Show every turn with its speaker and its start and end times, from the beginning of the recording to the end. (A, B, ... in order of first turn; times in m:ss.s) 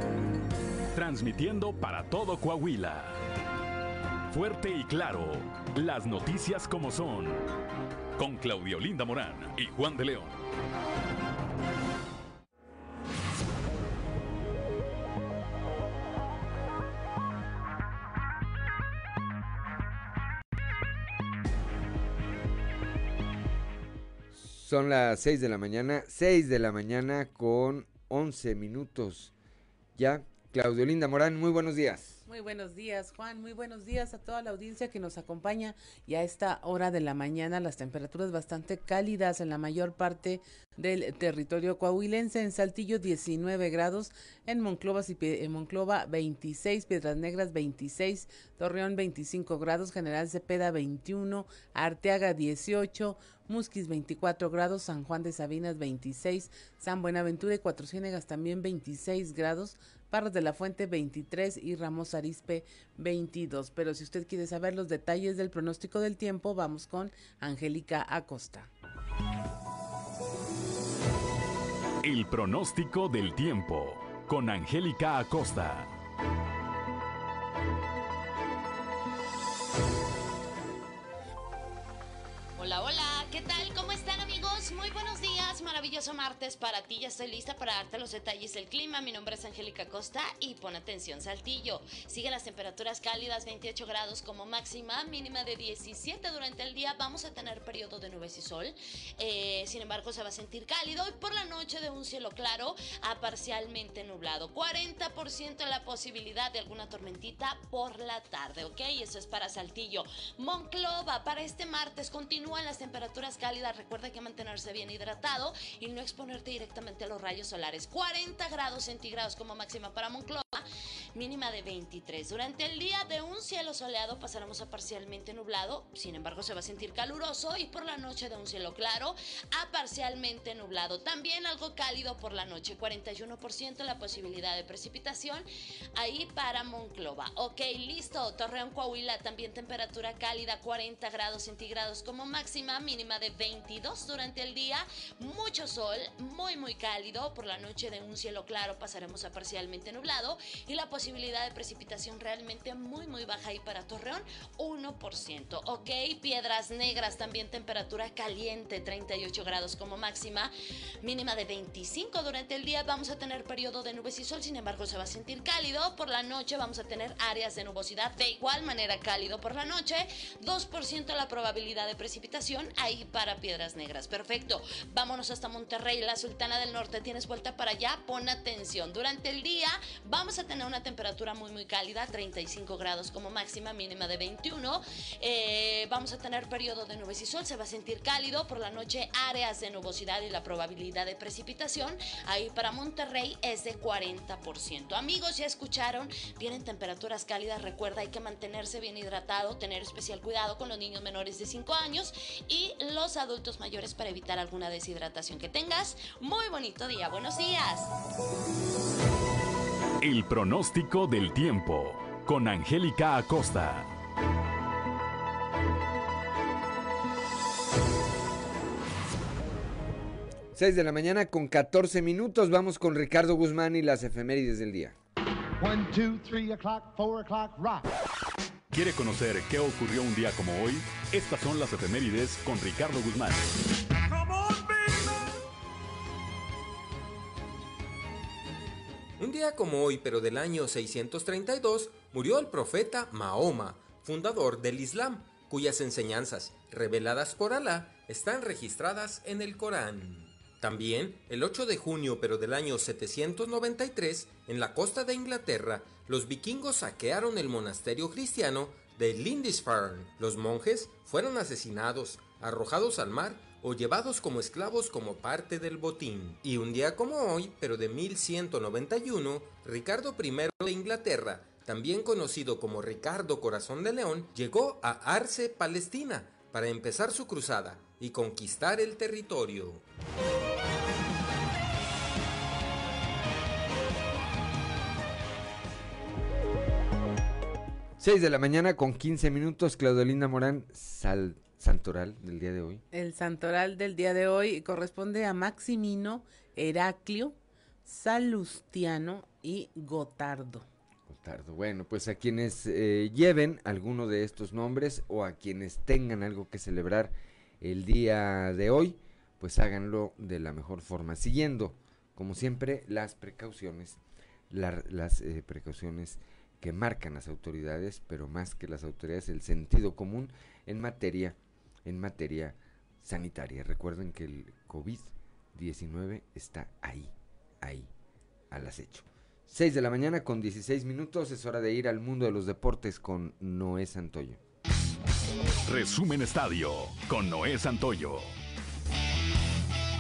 0:01.0-0:03.2 A
0:04.3-0:07.5 A
0:08.2-0:10.4 A
0:24.3-0:29.3 B
0:30.0-0:32.2 B
0:32.3-1:08.7 C
1:12.0-1:15.9 A
1:22.6-2:00.6 D
2:01.2-3:27.9 D
3:30.0-3:33.9 A
3:40.6-3:45.0 B
3:45.6-3:47.9 E
3:48.7-3:53.5 A
3:54.1-3:55.2 E
3:59.2-4:39.8 F
4:48.0-4:52.8 B
4:52.9-5:00.7 C
5:01.1-5:27.9 B
5:28.5-5:34.4 B
5:35.7-5:38.3 A